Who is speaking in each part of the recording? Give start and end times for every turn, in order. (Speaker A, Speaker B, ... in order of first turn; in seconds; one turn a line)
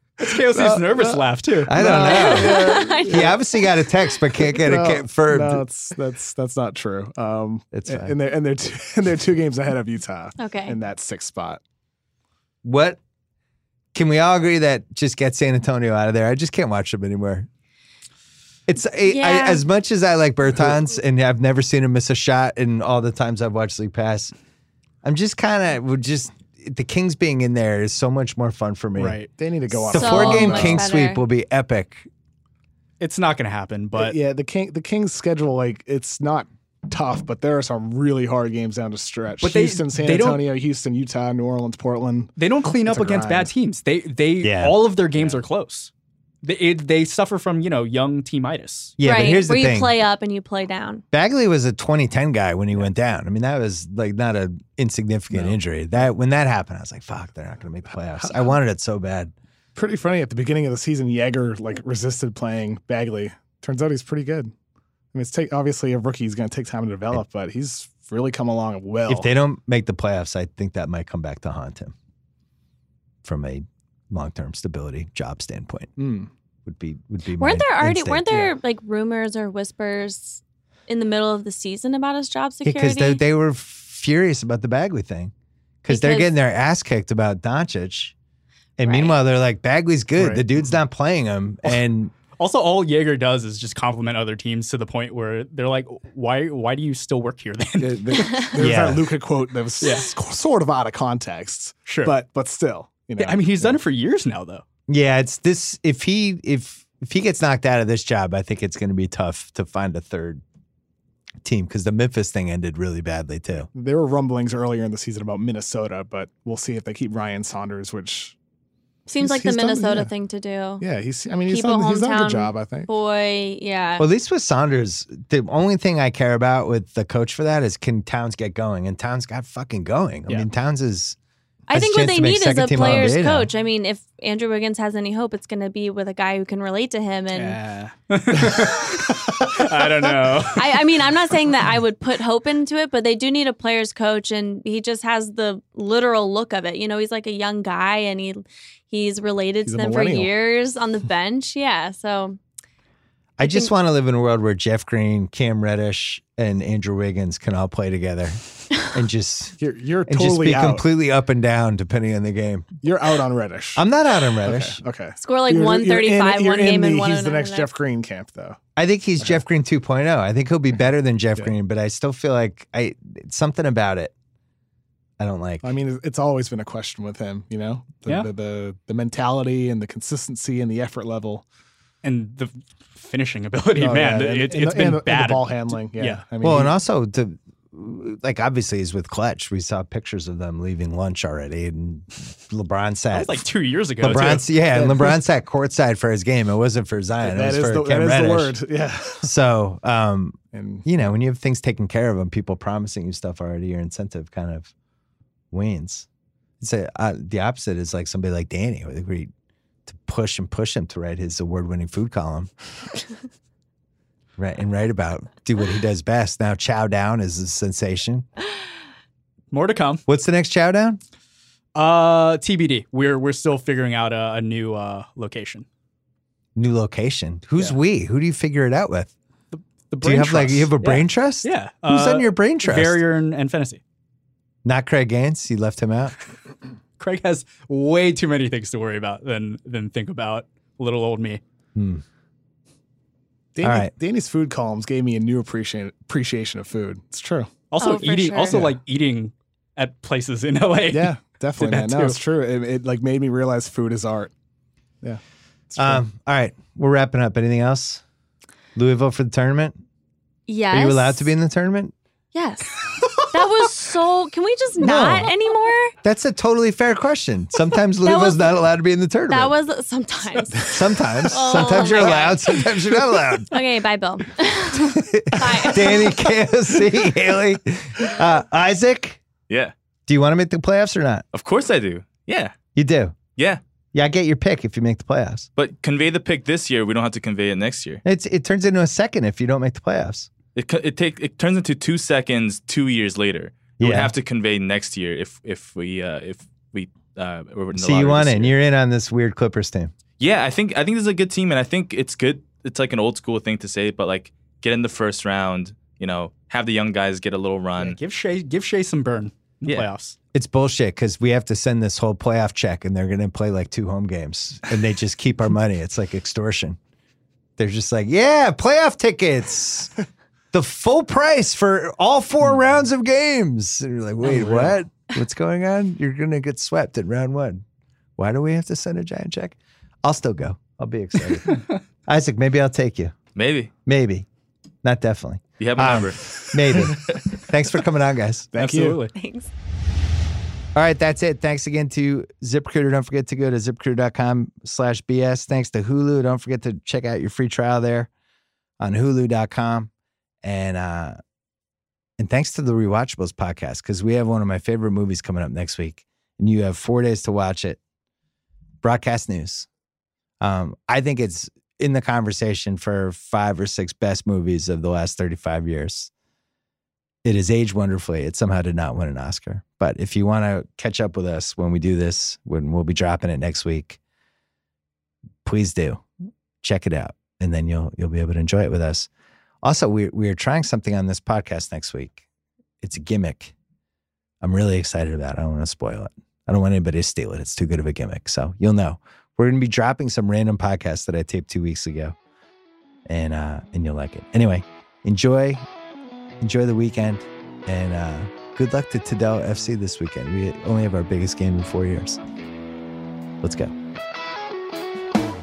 Speaker A: 0.2-2.5
Speaker B: 0.3-3.4
Speaker C: 1.7-5.6
Speaker D: 2.1-3.3
Speaker B: 4.5-11.6
Speaker C: 7.7-8.1
Speaker D: 10.4-10.8
Speaker C: 12.6-13.0
Speaker C: 13.9-17.5
Speaker C: 18.7-24.3
Speaker D: 19.1-19.6
Speaker C: 25.0-29.2
Speaker A: 29.0-29.3
Speaker B: 29.3-30.9
Speaker C: 29.9-32.1
Speaker D: 29.9-31.2
Speaker A: 33.0-34.2
Speaker B: 34.0-43.5
Speaker A: 39.4-40.4
Speaker A: 42.4-45.9
Speaker C: 44.4-44.8
Speaker A: 46.4-49.0
Speaker C: 49.0-49.9
Speaker D: 49.0-51.0
Speaker C: 51.1-59.3
Speaker B: 55.3-55.6
Speaker B: 58.2-58.6
Speaker B: 59.8-64.5
Speaker B: 65.1-69.3
Speaker C: 69.1-71.9
Speaker C: 73.2-75.9
Speaker B: 76.0-76.3
Speaker C: 76.7-78.5
Speaker D: 77.4-83.2
Speaker C: 82.6-85.3
Speaker C: 85.8-88.1
Speaker D: 85.9-86.3
Speaker C: 88.8-92.1
Speaker D: 88.8-89.2
Speaker B: 90.2-90.5
Speaker A: 92.3-98.5
Speaker B: 97.8-103.8
Speaker C: 98.6-99.0
Speaker A: 99.8-100.1
Speaker A: 101.8-102.1
Speaker A: 103.2-104.6
Speaker C: 104.9-110.4
Speaker C: 111.4-113.7
Speaker B: 113.7-118.3
Speaker D: 119.1-120.8
Speaker B: 119.2-120.1
Speaker B: 120.8-122.9
Speaker D: 121.5-124.0
Speaker C: 124.0-131.2
Speaker D: 131.7-137.6
Speaker C: 131.7-133.5
Speaker B: 132.9-133.1
Speaker A: 137.3-141.0
Speaker D: 140.6-152.4
Speaker B: 149.7-150.3
Speaker C: 153.4-162.8
Speaker D: 153.4-153.7
Speaker B: 159.6-160.8
Speaker B: 162.8-163.8
Speaker C: 163.8-164.8
Speaker B: 164.4-168.6
Speaker D: 165.2-167.7
Speaker C: 168.8-174.1
Speaker C: 175.2-175.7
Speaker B: 175.6-181.5
Speaker A: 182.0-186.2
Speaker B: 183.8-186.7
Speaker C: 186.4-193.4
Speaker A: 193.1-194.5
Speaker C: 194.0-198.6
Speaker B: 194.7-195.1
Speaker B: 197.2-199.3
Speaker C: 199.2-204.7
Speaker B: 200.5-200.8
Speaker C: 205.5-206.1
Speaker C: 206.6-209.3
Speaker C: 209.9-212.5
Speaker C: 214.4-218.3
Speaker A: 219.5-220.0
Speaker C: 220.1-221.0
Speaker A: 221.8-225.7
Speaker C: 226.6-229.1
Speaker A: 229.5-233.8
Speaker C: 230.0-233.0
Speaker C: 234.7-236.2
Speaker A: 237.0-241.4
Speaker C: 241.8-242.0
Speaker B: 243.6-247.6
Speaker C: 243.6-243.9
Speaker A: 247.7-252.2
Speaker D: 247.8-248.6
Speaker B: 248.4-248.8
Speaker B: 250.9-254.3
Speaker B: 255.0-256.0
Speaker C: 255.8-258.0
Speaker C: 258.8-259.8
Speaker D: 260.5-261.3
Speaker C: 260.7-261.9
Speaker D: 262.3-262.8
Speaker D: 263.3-265.9
Speaker C: 264.8-265.3
Speaker C: 266.0-269.6
Speaker D: 268.0-268.5
Speaker D: 269.3-272.7
Speaker C: 270.6-273.5
Speaker D: 273.5-276.3
Speaker C: 274.8-279.2
Speaker C: 280.1-281.2
Speaker E: 281.3-282.6
Speaker C: 282.8-283.1
Speaker E: 283.4-283.6
Speaker C: 283.9-285.5
Speaker E: 285.6-288.0
Speaker C: 288.0-290.3
Speaker E: 290.6-298.6
Speaker C: 293.8-294.1
Speaker C: 297.8-299.9
Speaker E: 300.2-308.0
Speaker A: 307.8-310.2
Speaker E: 309.6-309.9
Speaker C: 310.3-316.8
Speaker C: 317.6-319.9
Speaker C: 320.5-327.6
Speaker A: 324.2-324.7
Speaker C: 328.2-333.1
Speaker E: 333.4-333.7
Speaker C: 333.9-334.3
Speaker C: 334.8-338.5
Speaker E: 335.6-337.2
Speaker B: 338.5-339.0
Speaker A: 338.6-339.1
Speaker D: 339.1-339.5
Speaker C: 340.8-348.1
Speaker C: 348.8-349.9
Speaker C: 350.4-351.2
Speaker C: 352.2-357.8
Speaker C: 358.8-359.7
Speaker C: 360.4-366.1
Speaker C: 367.2-374.0
Speaker C: 375.4-376.1
Speaker C: 376.6-379.1
Speaker C: 379.6-382.2
Speaker C: 382.8-383.5
Speaker C: 384.4-392.2
Speaker C: 393.1-395.6
Speaker C: 396.4-402.2
Speaker C: 403.4-403.7